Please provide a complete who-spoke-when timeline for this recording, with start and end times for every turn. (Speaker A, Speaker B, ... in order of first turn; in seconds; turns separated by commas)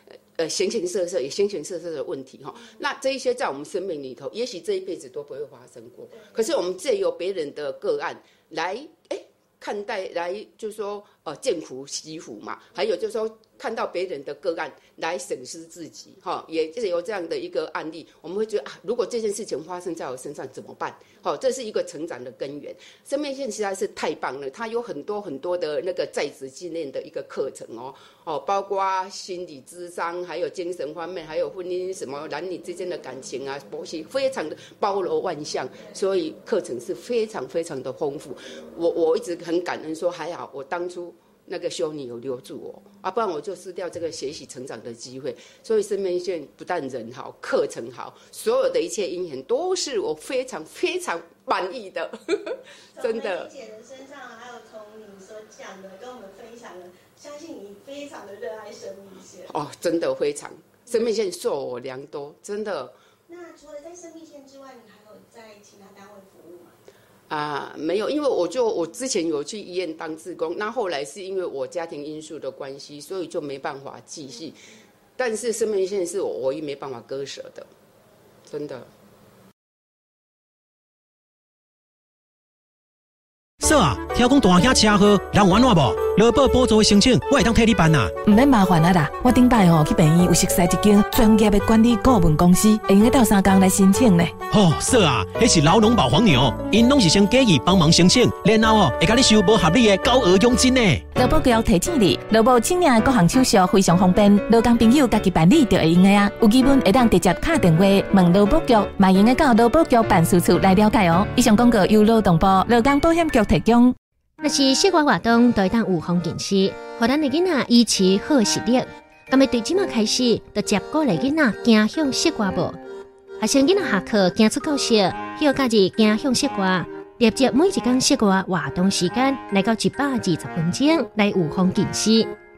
Speaker A: 0.4-53.5, Speaker B: 2.6-2.8, Speaker B: 6.1-6.5, Speaker B: 52.9-59.5, Speaker A: 59.5-62.9, Speaker B: 63.3-66.8, Speaker A: 67.3-74.6, Speaker A: 75.2-77.7, Speaker A: 78.5-78.9, Speaker C: 83.6-88.1, Speaker D: 88.2-94.3, Speaker C: 94.5-101.0, Speaker D: 101.1-113.9, Speaker E: 114.4-122.8, Speaker E: 123.4-132.3